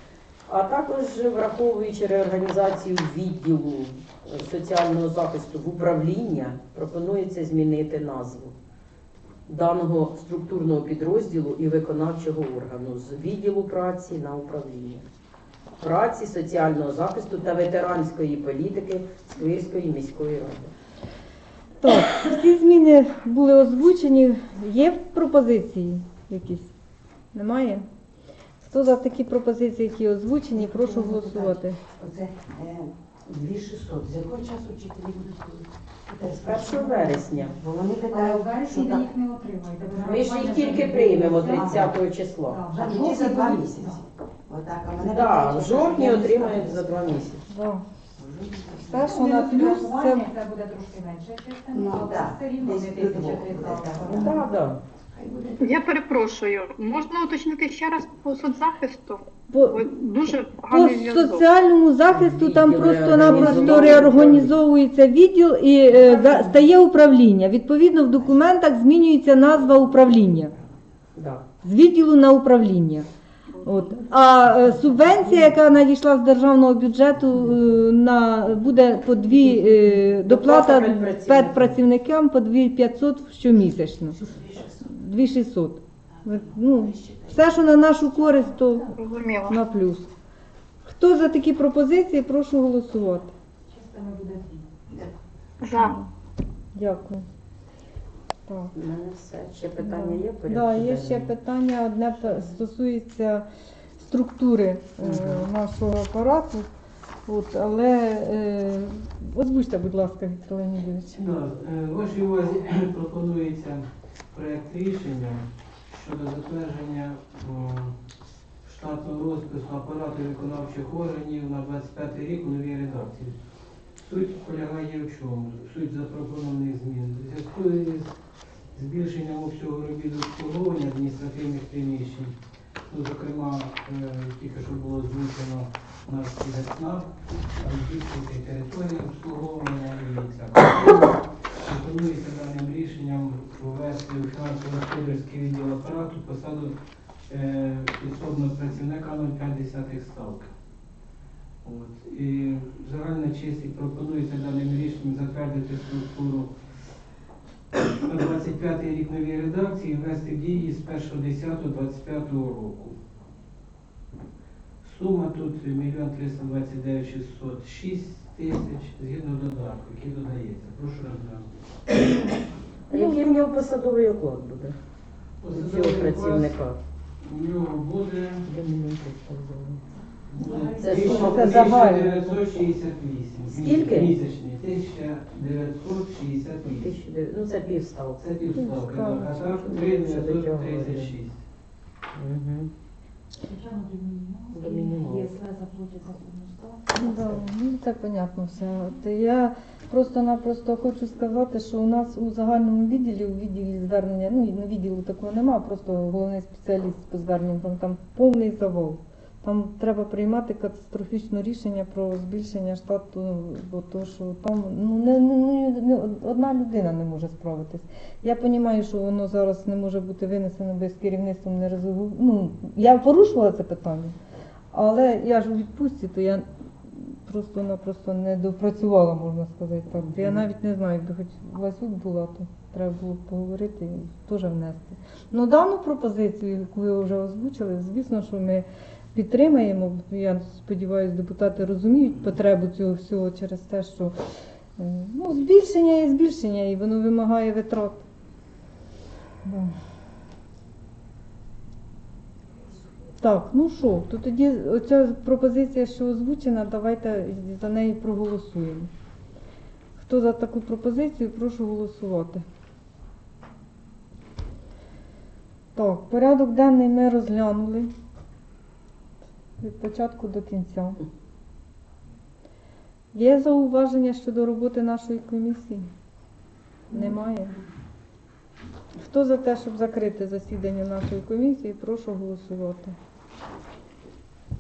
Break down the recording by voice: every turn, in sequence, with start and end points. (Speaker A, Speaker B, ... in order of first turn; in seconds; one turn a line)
Speaker A: 0.5-8.5
Speaker A: 9.5-15.1
Speaker A: 15.8-20.7
Speaker B: 21.8-26.7
Speaker B: 27.3-27.9
Speaker B: 28.6-31.8
Speaker C: 30.6-39.1
Speaker A: 36.3-37.6
Speaker D: 38.1-44.0
Speaker A: 39.9-42.6
Speaker C: 41.5-41.8
Speaker C: 42.7-47.1
Speaker A: 44.9-47.4
Speaker B: 47.5-47.8
Speaker C: 48.2-49.1
Speaker B: 48.9-50.3
Speaker D: 49.0-54.3
Speaker C: 51.7-54.5
Speaker A: 54.2-54.8
Speaker C: 55.1-55.8
Speaker E: 55.6-61.5
Speaker B: 59.5-59.9
Speaker B: 60.7-70.5
Speaker A: 62.1-64.5
Speaker C: 66.0-66.6
Speaker A: 71.2-71.4
Speaker B: 71.6-73.1
Speaker B: 73.6-84.2
Speaker A: 80.1-81.8
Speaker C: 84.2-84.9
Speaker B: 84.8-90.1
Speaker C: 86.2-88.5
Speaker E: 89.0-89.6
Speaker B: 90.8-93.3
Speaker D: 93.7-94.7
Speaker C: 94.9-95.1
Speaker E: 95.6-96.0
Speaker B: 95.7-96.1
Speaker B: 96.8-97.3
Speaker B: 98.5-98.7
Speaker A: 98.7-101.3
Speaker B: 99.8-103.5
Speaker B: 104.0-106.7
Speaker A: 105.0-105.4
Speaker B: 107.3-111.2
Speaker F: 111.1-113.8
Speaker F: 114.3-117.9
Speaker F: 118.6-123.3
Speaker F: 124.0-128.2
Speaker F: 128.7-132.3
Speaker F: 132.9-146.7
Speaker F: 147.3-150.5
Speaker F: 151.6-156.5
Speaker F: 157.8-162.9
Speaker F: 164.8-171.5
Speaker B: 172.9-173.3
Speaker A: 172.9-174.8
Speaker F: 175.4-176.5
Speaker A: 175.5-176.8
Speaker F: 177.2-178.5
Speaker A: 178.4-179.8
Speaker F: 180.3-186.9
Speaker C: 180.5-181.4
Speaker A: 180.8-181.8
Speaker B: 181.0-182.2
Speaker A: 183.4-184.1
Speaker A: 186.7-188.3
Speaker F: 188.2-191.4
Speaker B: 188.6-189.3
Speaker A: 189.3-191.1
Speaker A: 192.2-192.7
Speaker D: 193.5-197.0
Speaker A: 194.5-195.4
Speaker B: 196.9-224.2
Speaker B: 224.7-244.1
Speaker A: 230.1-230.4
Speaker B: 244.8-248.0
Speaker B: 249.4-249.7
Speaker B: 253.2-258.9
Speaker B: 260.0-262.4
Speaker B: 265.8-267.9
Speaker B: 269.6-271.0
Speaker B: 273.1-275.9
Speaker B: 276.9-277.6
Speaker B: 279.0-282.9